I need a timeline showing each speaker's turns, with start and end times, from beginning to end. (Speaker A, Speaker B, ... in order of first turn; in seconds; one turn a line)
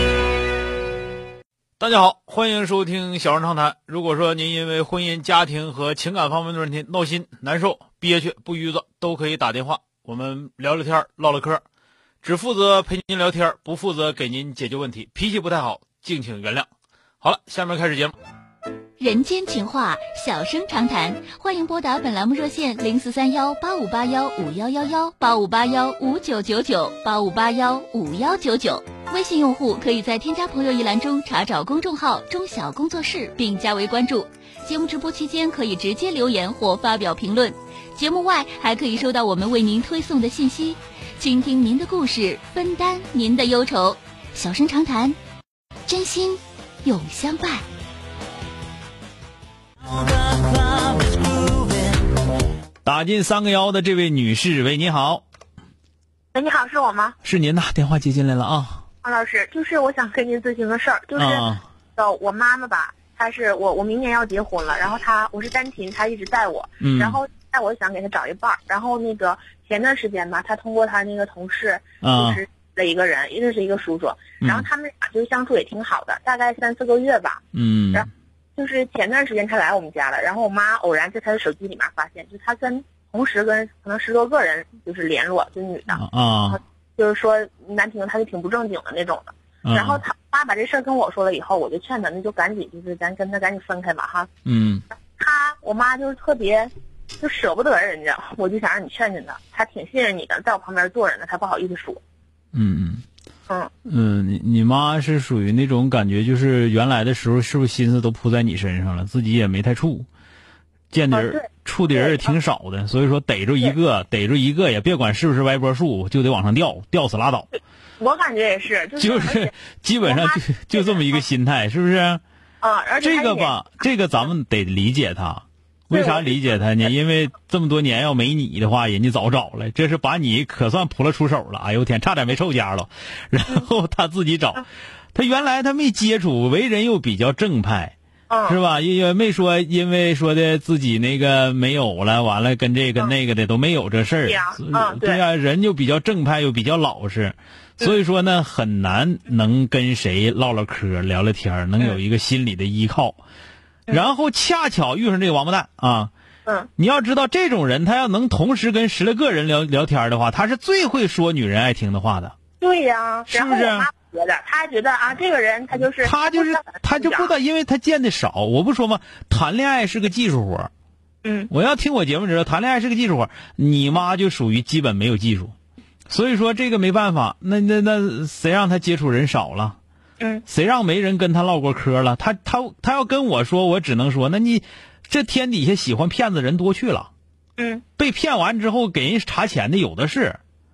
Speaker A: 1.8-11.6
Speaker A: 12.2-16.7
Speaker A: 17.2-18.1
Speaker B: 19.0-45.2
Speaker B: 45.9-47.6
Speaker A: 52.8-55.2
Speaker C: 56.3-57.2
Speaker A: 57.2-58.8
Speaker C: 59.0-94.3
Speaker A: 61.1-61.6
Speaker A: 66.8-67.2
Speaker A: 72.0-72.4
Speaker A: 74.4-74.7
Speaker A: 77.5-78.1
Speaker A: 85.9-86.6
Speaker A: 89.6-90.0
Speaker A: 94.5-94.8
Speaker C: 95.2-102.0
Speaker A: 102.5-103.0
Speaker A: 103.8-110.1
Speaker A: 110.9-117.5
Speaker C: 111.1-112.3
Speaker C: 118.0-119.5
Speaker A: 119.0-122.2
Speaker C: 120.0-121.2
Speaker C: 122.6-123.6
Speaker A: 123.0-137.9
Speaker C: 125.9-126.6
Speaker C: 138.3-138.6
Speaker A: 138.5-153.2
Speaker C: 144.2-145.2
Speaker A: 153.9-156.1
Speaker A: 156.8-162.3
Speaker C: 162.6-167.3
Speaker A: 163.3-163.9
Speaker A: 166.0-170.7
Speaker C: 171.2-171.5
Speaker A: 171.5-175.5
Speaker A: 176.1-179.8
Speaker C: 180.2-180.4
Speaker A: 180.5-187.1
Speaker C: 187.6-187.8
Speaker A: 188.0-190.4